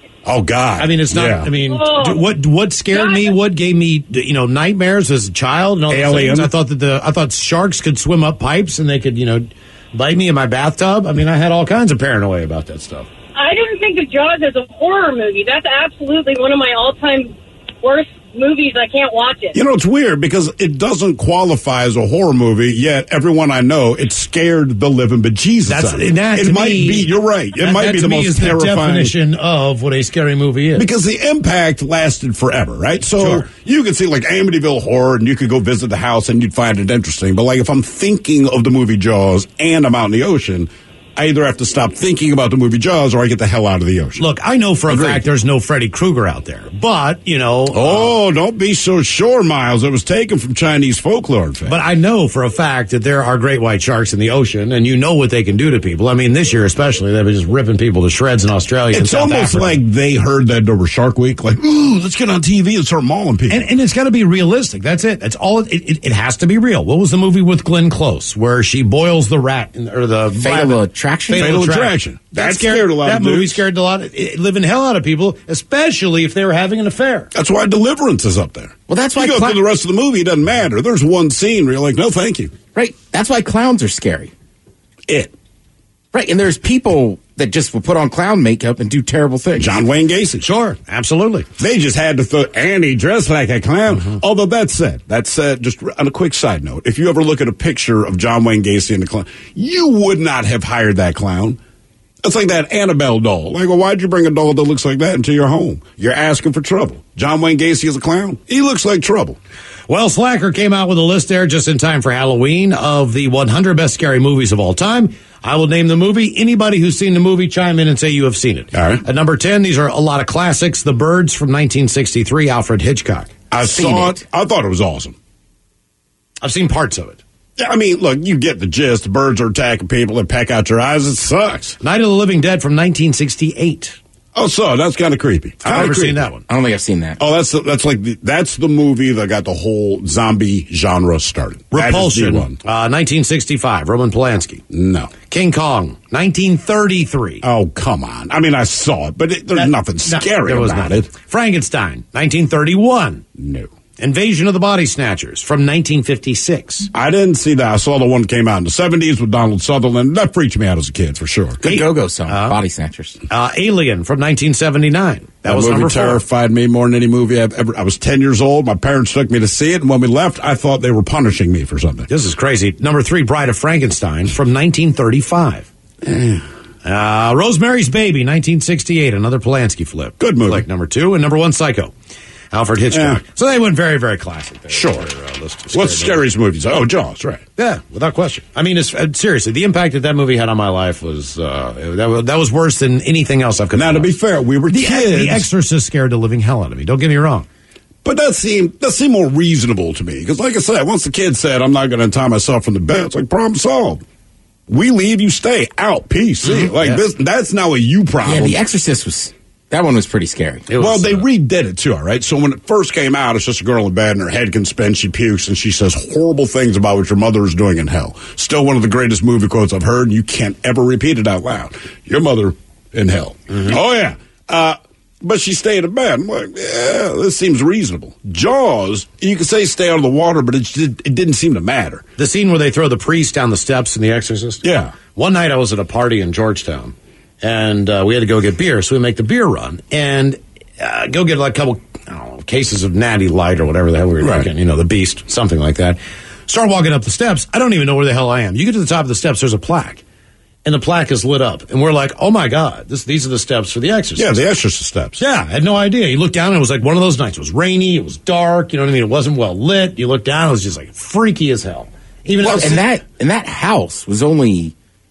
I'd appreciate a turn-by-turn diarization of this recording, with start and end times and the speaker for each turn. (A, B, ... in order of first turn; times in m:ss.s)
0:00.2-0:01.5 A
0:00.8-0:13.1 B
0:01.7-0:02.3 C
0:02.9-0:03.4 C
0:05.9-0:06.5 A
0:13.4-0:19.6 C
0:19.5-0:29.1 A
0:25.7-0:30.9 B
0:30.8-0:44.2 A
0:33.2-0:33.5 B
0:44.2-0:48.2 B
0:44.9-0:45.2 A
0:47.7-0:51.8 A
0:51.6-0:59.8 B
0:58.9-1:03.6 A
1:03.5-1:17.3 B
1:10.4-1:11.6 D
1:11.4-1:13.6 A
1:17.3-1:22.5 A
1:18.9-1:19.6 D
1:22.8-1:24.3 D
1:26.1-1:29.8 D
1:29.6-1:30.5 A
1:30.4-1:31.5 B
1:31.6-1:41.6 A
1:42.2-1:49.4 A
1:49.9-2:04.2 B
1:58.7-1:59.0 A
2:03.5-2:05.1 A
2:06.4-2:07.2 B
2:07.6-2:11.8 A
2:11.8-2:14.0 B
2:14.4-2:16.3 A
2:15.6-2:16.4 B
2:16.5-2:17.2 D
2:17.2-2:22.6 A
2:21.7-2:24.6 B
2:24.7-2:25.1 A
2:25.3-2:27.4 B
2:27.4-2:31.1 A
2:29.6-2:33.3 B
2:33.4-2:33.7 A
2:34.0-2:36.9 B
2:36.9-2:41.6 A
2:41.6-2:43.2 D
2:41.6-2:42.6 B
2:43.3-2:46.2 B
2:45.5-2:52.1 A
2:52.1-2:55.7 B
2:56.0-2:56.4 A
2:56.8-3:01.9 B
3:00.2-3:00.6 A
3:02.5-3:06.2 B
3:02.9-3:03.2 A
3:04.7-3:05.1 A
3:05.7-3:07.4 A
3:07.6-3:14.1 B
3:13.7-3:15.5 A
3:14.7-3:17.5 B
3:18.0-3:24.0 A
3:24.7-3:28.6 A
3:26.4-3:27.0 B
3:28.2-3:30.7 D
3:30.7-3:31.2 B
3:30.8-3:52.0 A
3:43.5-3:43.8 B
3:52.2-3:54.6 B
3:54.6-3:55.0 A
3:55.1-4:10.0 B
4:04.2-4:04.5 A
4:10.6-4:14.4 B
4:14.2-4:15.2 A
4:15.2-4:22.8 B
4:22.4-4:22.7 A
4:22.4-4:24.7 D